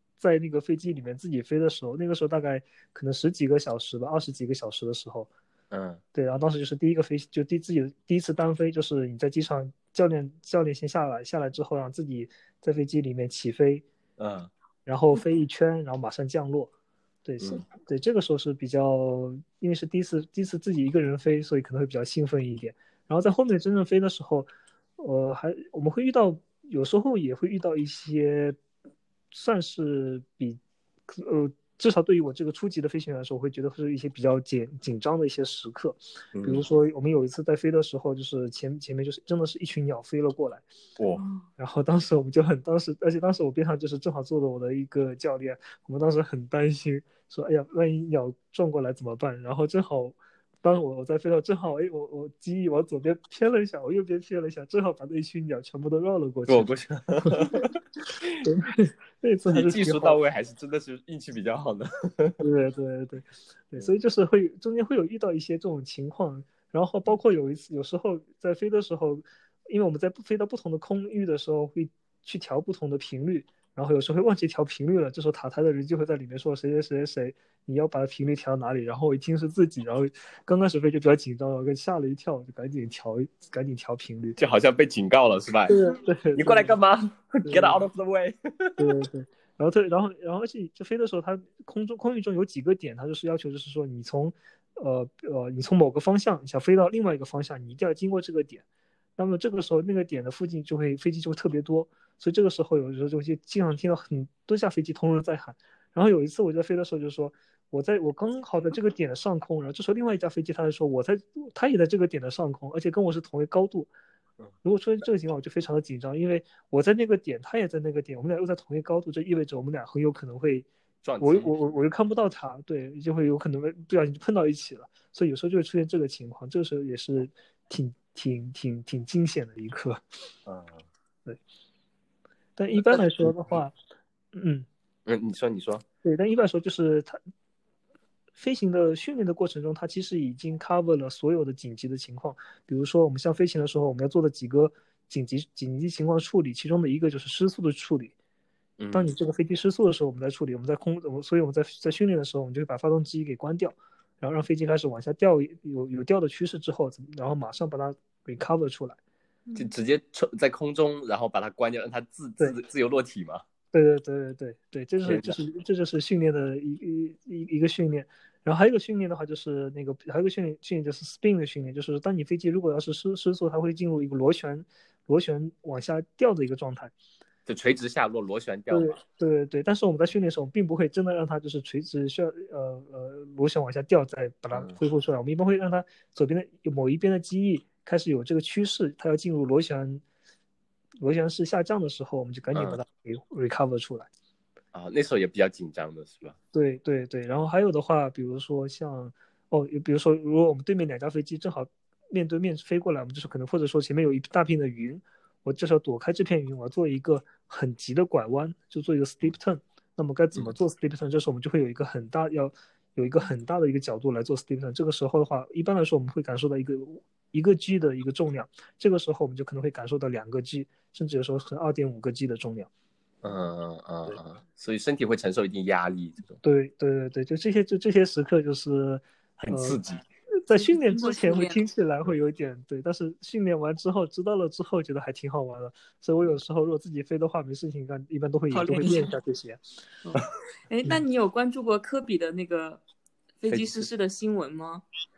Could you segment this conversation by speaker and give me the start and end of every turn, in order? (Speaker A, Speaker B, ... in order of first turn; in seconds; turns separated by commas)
Speaker A: 0.2-5.3, Speaker B: 5.7-6.0, Speaker A: 6.1-13.8, Speaker B: 14.2-14.5, Speaker A: 14.9-16.7, Speaker A: 17.2-28.6, Speaker A: 29.3-40.6, Speaker B: 36.3-36.6, Speaker B: 41.0-41.2, Speaker C: 41.2-41.5, Speaker A: 41.6-57.7, Speaker B: 56.5-57.7, Speaker A: 58.4-60.2, Speaker B: 59.5-62.4, Speaker A: 62.4-84.4, Speaker B: 84.4-85.8, Speaker A: 85.7-86.8, Speaker B: 86.3-88.9, Speaker A: 87.4-87.8, Speaker A: 88.8-98.6, Speaker A: 99.2-113.9, Speaker A: 114.6-120.7, Speaker B: 121.0-121.5, Speaker A: 121.2-130.0, Speaker B: 130.5-130.8, Speaker A: 132.6-133.7, Speaker A: 134.3-134.7, Speaker B: 135.1-135.8, Speaker A: 136.0-137.2, Speaker A: 138.4-148.2, Speaker B: 148.8-149.1, Speaker A: 148.9-159.0, Speaker B: 159.6-163.4, Speaker A: 163.7-176.9, Speaker B: 165.0-165.4, Speaker B: 177.5-179.0, Speaker A: 178.7-190.0, Speaker A: 191.0-194.1, Speaker B: 192.5-192.8, Speaker B: 194.7-196.4, Speaker A: 196.5-222.7, Speaker B: 223.2-226.4, Speaker A: 226.4-229.8, Speaker B: 229.4-230.0, Speaker A: 230.4-239.6, Speaker C: 230.7-231.6, Speaker C: 238.5-239.1, Speaker C: 240.0-242.8, Speaker C: 243.4-244.8, Speaker B: 243.5-243.9